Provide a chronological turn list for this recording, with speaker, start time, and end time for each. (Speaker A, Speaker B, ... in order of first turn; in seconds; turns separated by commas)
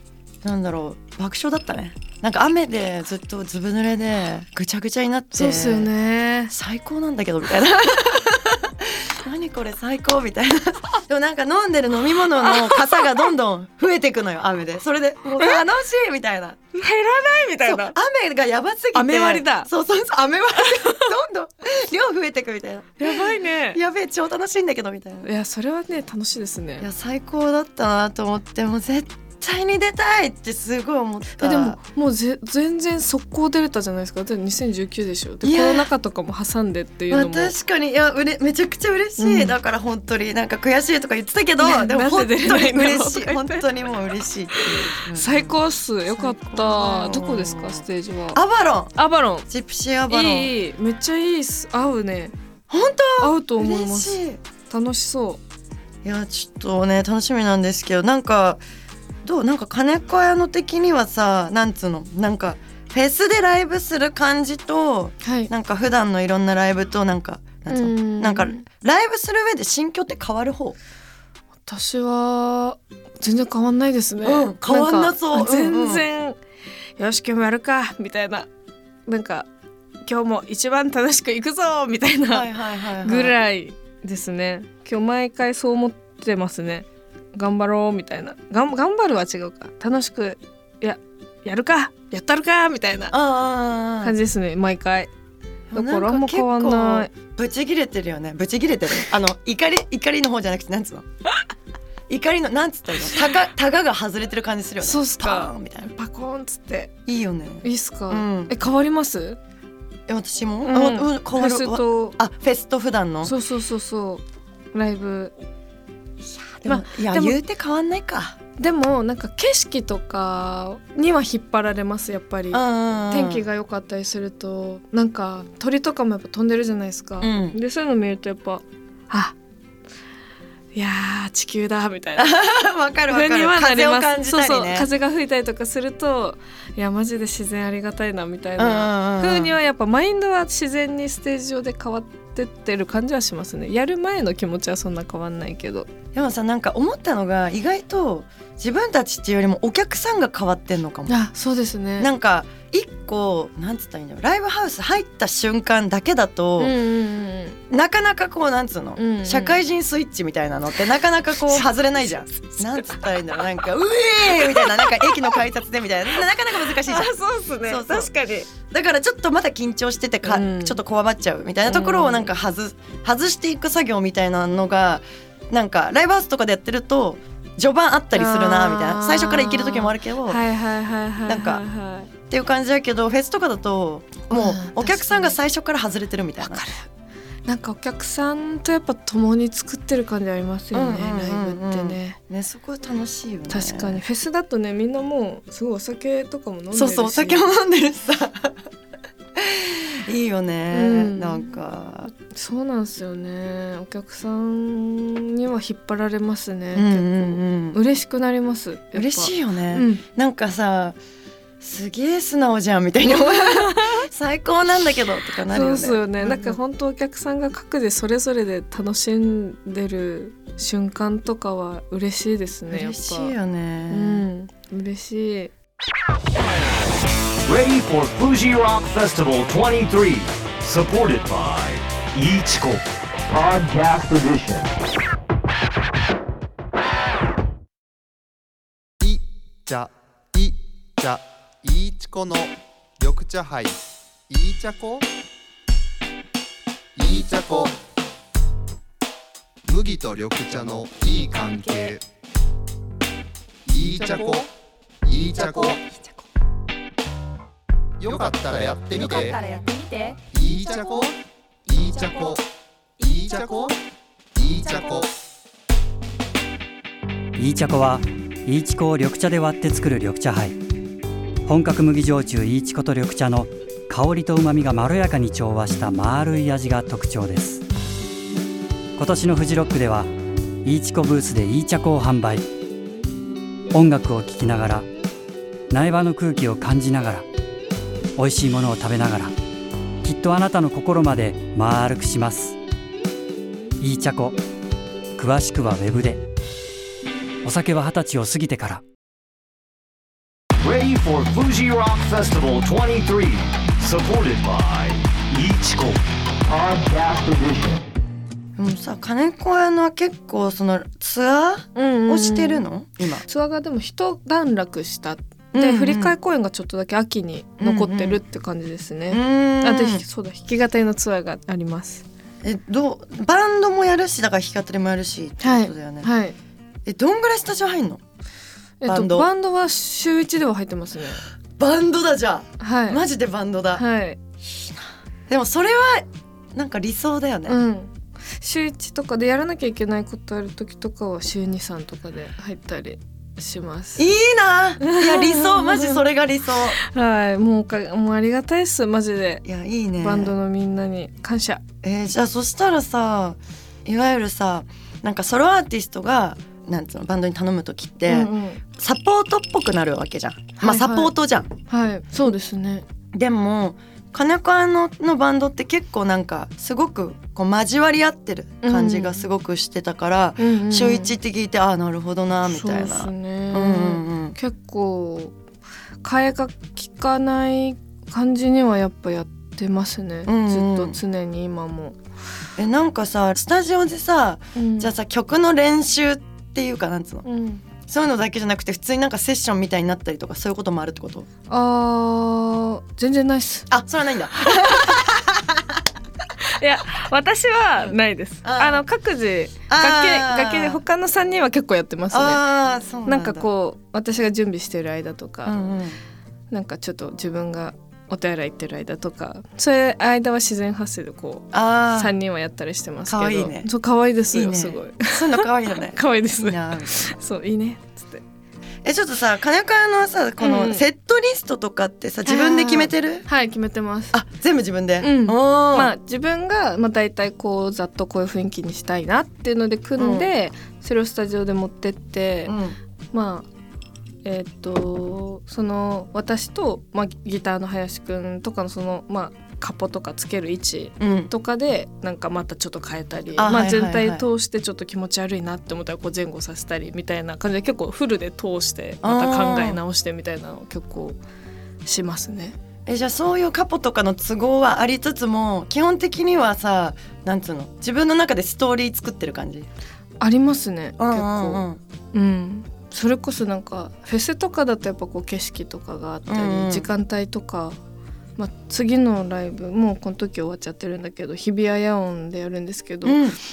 Speaker A: 0.4-5.9, Speaker B: 5.3-6.5, Speaker A: 6.5-16.6, Speaker B: 12.4-13.3, Speaker B: 16.7-18.0, Speaker A: 17.7-25.3, Speaker B: 18.9-19.7, Speaker B: 20.6-21.1, Speaker B: 23.0-23.8, Speaker B: 25.2-26.9, Speaker A: 26.8-31.8, Speaker B: 31.4-37.5, Speaker A: 35.4-35.9, Speaker A: 37.1-45.5, Speaker B: 39.2-39.6, Speaker B: 41.6-43.7, Speaker B: 44.5-48.4, Speaker A: 46.1-47.8, Speaker A: 48.3-49.0, Speaker B: 49.0-49.5, Speaker A: 49.5-50.5, Speaker B: 50.1-52.4, Speaker A: 52.7-54.4, Speaker B: 53.2-55.4, Speaker A: 56.0-58.6, Speaker A: 59.2-70.8, Speaker B: 65.2-65.5, Speaker B: 67.7-68.7, Speaker B: 71.7-76.4, Speaker A: 74.2-76.1, Speaker B: 77.0-78.5, Speaker B: 79.1-79.5, Speaker B: 80.0-82.5, Speaker A: 82.3-83.4, Speaker B: 83.0-93.2, Speaker A: 93.1-94.2, Speaker B: 94.0-95.1, Speaker A: 95.7-101.1, Speaker B: 95.7-97.1, Speaker A: 102.1-105.9, Speaker B: 104.8-106.9, Speaker A: 107.1-108.5, Speaker B: 107.6-109.4, Speaker A: 110.1-113.3, Speaker B: 110.6-112.2, Speaker B: 113.2-115.3, Speaker B: 116.2-117.4, Speaker A: 116.6-118.4, Speaker B: 118.6-129.4, Speaker A: 122.5-123.5, Speaker A: 127.2-127.6, Speaker B: 130.7-132.4, Speaker A: 132.2-134.9, Speaker B: 133.1-145.9, Speaker A: 138.6-139.6, Speaker A: 146.2-151.2, Speaker B: 151.1-152.1, Speaker A: 152.0-156.7, Speaker B: 156.6-157.6, Speaker A: 157.7-167.1, Speaker B: 159.0-159.6, Speaker B: 164.4-165.2, Speaker B: 166.8-168.5, Speaker A: 167.7-180.4, Speaker B: 170.2-170.8, Speaker B: 171.7-172.3, Speaker B: 178.1-182.1, Speaker A: 181.3-181.6, Speaker A: 182.3-186.6, Speaker B: 184.3-185.4, Speaker B: 186.4-186.9, Speaker B: 187.5-192.2, Speaker A: 190.7-194.0, Speaker B: 193.5-197.4, Speaker A: 196.7-198.6, Speaker A: 199.4-202.1, Speaker B: 200.7-201.5, Speaker B: 202.1-210.0, Speaker A: 206.7-207.8, Speaker A: 208.9-211.0, Speaker A: 211.6-216.6, Speaker B: 213.1-214.1, Speaker B: 215.5-223.3, Speaker A: 222.7-224.3, Speaker B: 223.9-225.5, Speaker C: 227.4-234.7, Speaker D: 239.0-245.1, Speaker D: 247.0-247.8, Speaker D: 249.7-252.1, Speaker D: 253.7-254.5, Speaker D: 255.0-255.9, Speaker D: 258.0-262.4, Speaker D: 263.0-263.8, Speaker D: 264.4-265.1, Speaker E: 267.4-270.6, Speaker E: 271.4-277.6, Speaker E: 279.0-280.1, Speaker E: 280.6-282.4, Speaker E: 283.7-284.9, Speaker E: 285.7-287.2, Speaker E: 288.2-289.3, Speaker E: 290.0-292.6, Speaker E: 293.8-294.4, Speaker E: 295.2-296.2, Speaker E: 297.4-298.8, Speaker C: 300.6-307.8, Speaker A: 308.6-313.2, Speaker B: 311.8-312.6, Speaker B: 313.2-322.1, Speaker A: 315.5-316.2, Speaker A: 317.6-318.2, Speaker A: 319.1-320.0, Speaker A: 322.4-326.1, Speaker B: 325.4-326.4, Speaker A: 326.9-328.0, Speaker B: 328.8-331.2, Speaker A: 328.9-329.3, Speaker A: 331.6-333.8, Speaker B: 332.6-333.0, Speaker B: 333.8-334.2, Speaker A: 334.4-337.6, Speaker B: 337.5-344.1, Speaker A: 344.0-346.8, Speaker B: 344.8-346.0, Speaker B: 346.7-349.4, Speaker A: 349.4-350.3, Speaker B: 350.0-351.6, Speaker A: 351.8-361.5, Speaker B: 358.1-358.6, Speaker B: 360.6-361.1, Speaker B: 361.7-362.9, Speaker A: 363.1-374.4, Speaker B: 368.6-369.2, Speaker B: 370.4-371.2, Speaker B: 372.5-375.4, Speaker B: 376.0-382.0, Speaker A: 380.3-381.0, Speaker A: 382.6-387.2, Speaker B: 384.6-384.9, Speaker B: 387.2-387.6, Speaker A: 387.8-391.3, Speaker B: 391.5-393.7, Speaker A: 393.7-395.8, Speaker B: 396.6-402.4, Speaker A: 397.8-398.8, Speaker A: 399.7-400.8, Speaker A: 402.1-403.5, Speaker B: 403.1-405.6, Speaker A: 405.4-406.0, Speaker B: 406.5-418.2, Speaker A: 411.5-412.1, Speaker A: 413.1-413.7, Speaker A: 414.3-416.9, Speaker A: 418.8-423.3, Speaker B: 420.4-420.8, Speaker B: 422.2-424.1, Speaker A: 424.1-425.9, Speaker B: 425.0-432.5, Speaker A: 430.0-430.3, Speaker A: 432.5-432.8, Speaker B: 433.1-433.5, Speaker B: 434.2-451.2, Speaker A: 441.0-441.3, Speaker A: 443.4-444.2, Speaker A: 449.0-449.8, Speaker B: 451.9-452.6, Speaker A: 452.9-459.7, Speaker B: 460.2-467.8, Speaker A: 461.0-461.8, Speaker A: 466.3-466.9, Speaker B: 468.4-473.2, Speaker A: 473.0-473.4